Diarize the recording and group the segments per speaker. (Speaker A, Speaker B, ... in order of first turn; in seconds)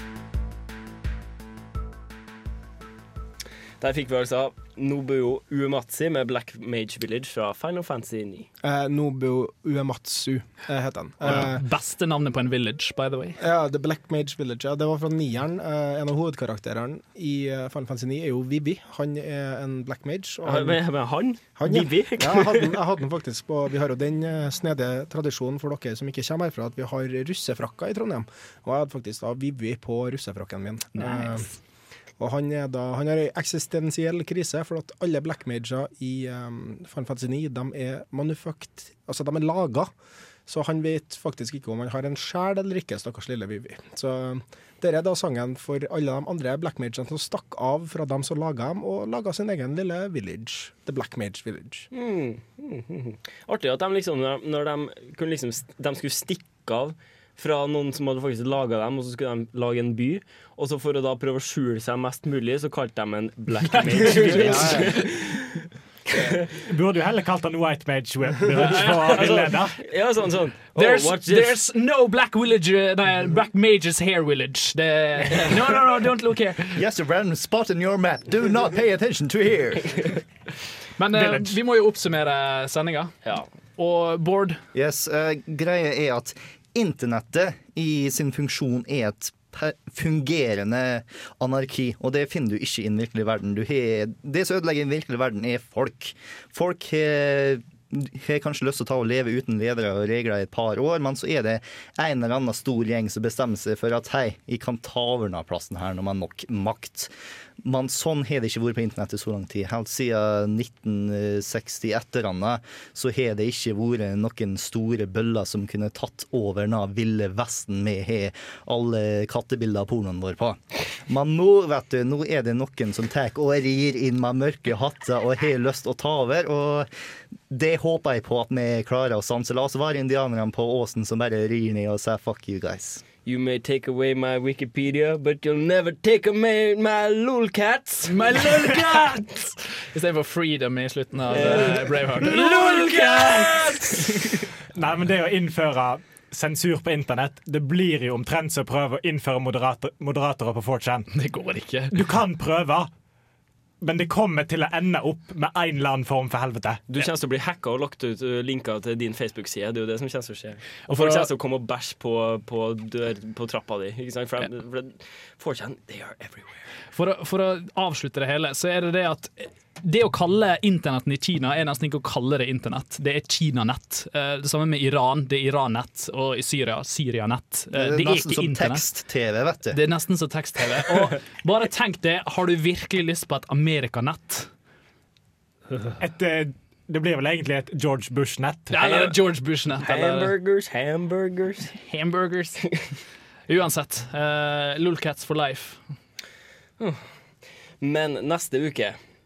Speaker A: 3.8-8.5, 20.4-22.8, 51.9-65.6, 66.1-66.5, 68.6-71.6, 75.3-75.6, 133.2-139.1, 141.3-144.4, 156.9-166.7, 188.7-189.1, 189.8-191.8, 196.8-197.1, 197.8-199.0
Speaker B: 8.6-11.6, 13.4-20.8, 21.6-31.5, 32.2-39.9, 40.5-51.9, 64.1-64.9
Speaker C: 11.2-13.4, 64.0-64.9, 68.6-69.3, 70.7-76.8, 81.0-83.2, 83.8-84.6, 138.1-144.3, 151.1-151.9, 160.9-161.3, 166.9-178.8, 179.7-184.5, 188.7-190.3, 191.7-192.6, 193.5-195.8
Speaker D: 66.7-69.8, 81.1-81.5, 144.8-151.1, 151.9-152.9, 153.8-156.8, 186.0-188.8
Speaker E: 76.7-80.2, 84.8-107.1, 107.6-126.9, 127.5-133.0, 177.7-179.8